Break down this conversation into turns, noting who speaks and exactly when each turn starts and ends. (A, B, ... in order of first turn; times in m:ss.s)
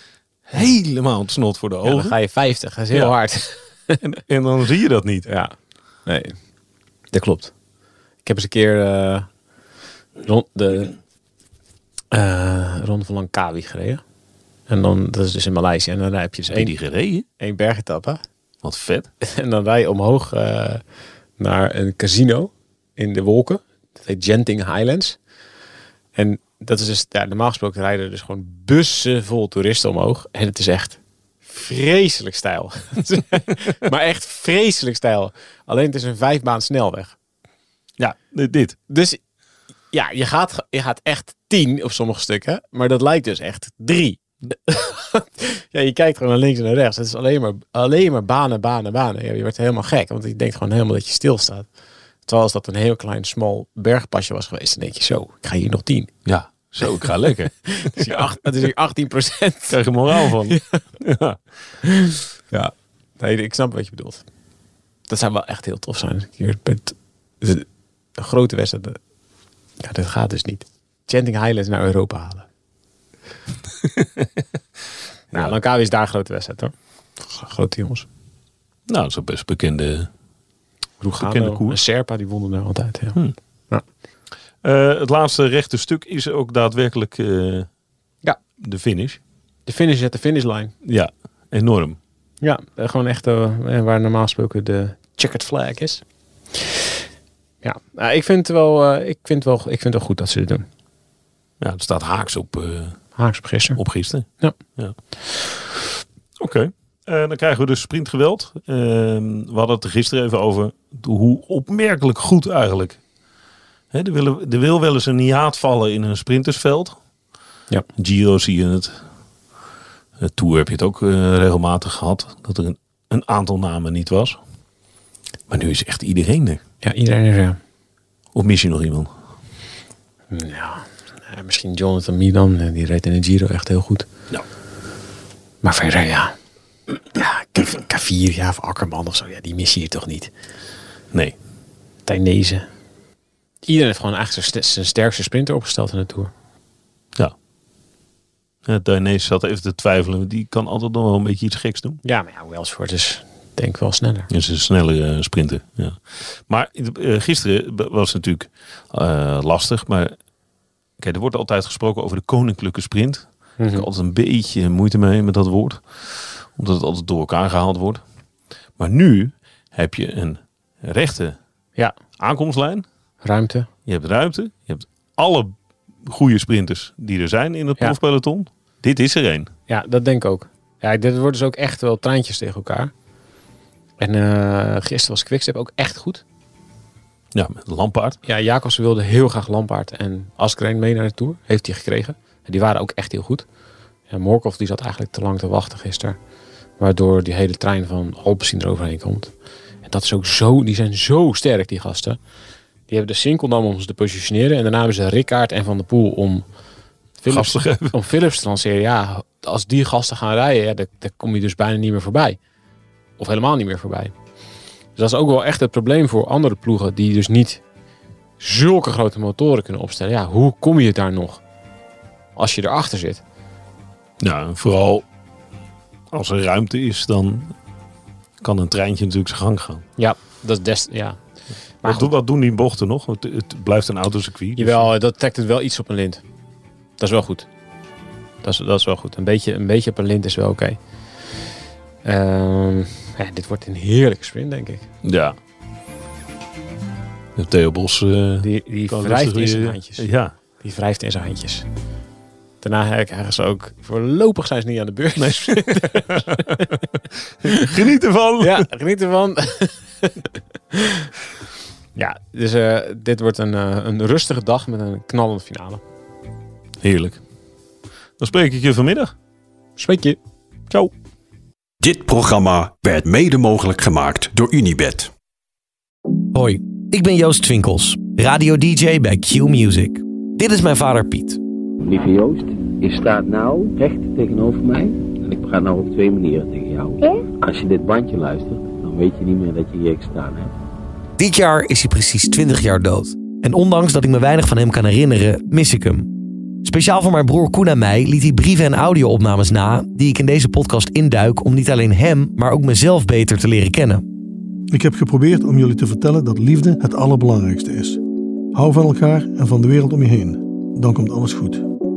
0:00.5-0:02.1 A
0:01.8-0:04.0 B
0:04.0-0:05.3 A
0:05.3-0:05.5 B
0:06.0-0:06.3 B
0:07.1-0:07.5 B
0:08.2-0:09.3 B
0:10.2-0:11.0 B
0:12.1-0:14.0 B
0:14.7-0:16.7 B
0:16.5-0:17.2 A
0:17.4-0:18.2 B
0:18.6-0:19.1 A
0:19.2-0:20.8 B
0:21.4-0:25.2 B
0:26.1-0:37.1 B
0:38.0-0:38.8 A
0:38.9-0:39.2 B
0:39.9-0:51.7 B
0:52.2-0:56.1 B
0:56.2-0:58.3 A
0:57.6-1:00.8 B
0:59.7-1:01.4 A
1:01.8-1:04.2 B
1:05.1-1:07.6 B
1:08.2-1:09.0 B
1:09.8-1:12.5 B
1:13.9-1:14.2 A
1:15.3-1:18.1 B
1:18.9-1:20.1 A
1:21.0-1:23.2 B
1:21.2-1:21.8 A
1:24.6-1:27.7 A
1:28.6-1:29.2 A
1:29.6-1:30.7 B
1:30.8-1:32.0 A
1:32.4-1:36.0 B
1:37.6-1:40.6 B
1:41.6-1:43.0 A
1:43.2-1:43.8 B
1:43.7-1:44.9 A
1:46.4-1:53.0 A
1:53.9-1:56.9 A
1:58.0-1:59.0 A
2:00.2-2:04.4 A
2:05.5-2:06.6 A
2:06.8-2:07.6 B
2:08.3-2:09.1 A
2:10.3-2:14.0 B
2:15.6-2:16.3 B
2:16.9-2:20.3 B
2:22.0-2:22.7 B
2:23.6-2:26.3 B
2:28.6-2:32.0 A
2:32.0-2:34.3 B
2:34.3-2:40.1 A
2:41.0-2:48.0 A
2:43.6-2:43.8 B
2:48.8-2:51.4 A
2:52.2-2:52.8 A
2:53.2-2:53.7 B
2:53.8-2:59.5 A
2:59.7-3:02.9 B
3:04.0-3:06.2 B
3:07.3-3:08.2 A
3:08.2-3:13.4 B
3:14.1-3:16.2 B
3:16.8-3:22.2 B
3:22.9-3:26.4 B
3:27.2-3:32.4 B
3:27.3-3:27.9 A
3:33.2-3:34.1 B
3:35.0-3:37.6 B
3:38.4-3:41.4 B
3:42.3-3:43.2 B
3:44.2-3:45.0 A
3:46.1-3:47.5 A
3:48.4-3:49.8 A
3:50.0-3:51.2 B
3:51.8-3:52.1 B
3:51.8-3:54.9 A
3:54.6-3:56.2 B
3:57.0-3:57.5 B
3:58.4-4:00.8 B
4:02.0-4:04.9 B
4:05.0-4:05.4 A
4:07.4-4:10.3 A
4:08.4-4:10.0 B
4:10.6-4:11.6 B
4:12.6-4:16.7 B
4:15.2-4:16.7 A
4:17.4-4:18.6 A
4:17.4-4:17.7 B
4:18.4-4:21.1 B
4:21.9-4:25.8 B
4:26.8-4:27.2 A
4:28.2-4:29.1 A
4:29.8-4:30.2 B
4:31.8-4:35.1 C
4:36.3-4:41.4 D
4:41.8-4:50.5 E
4:51.2-4:56.1 D
4:56.6-5:04.0 D
5:04.7-5:08.0 F
5:08.5-5:11.6 F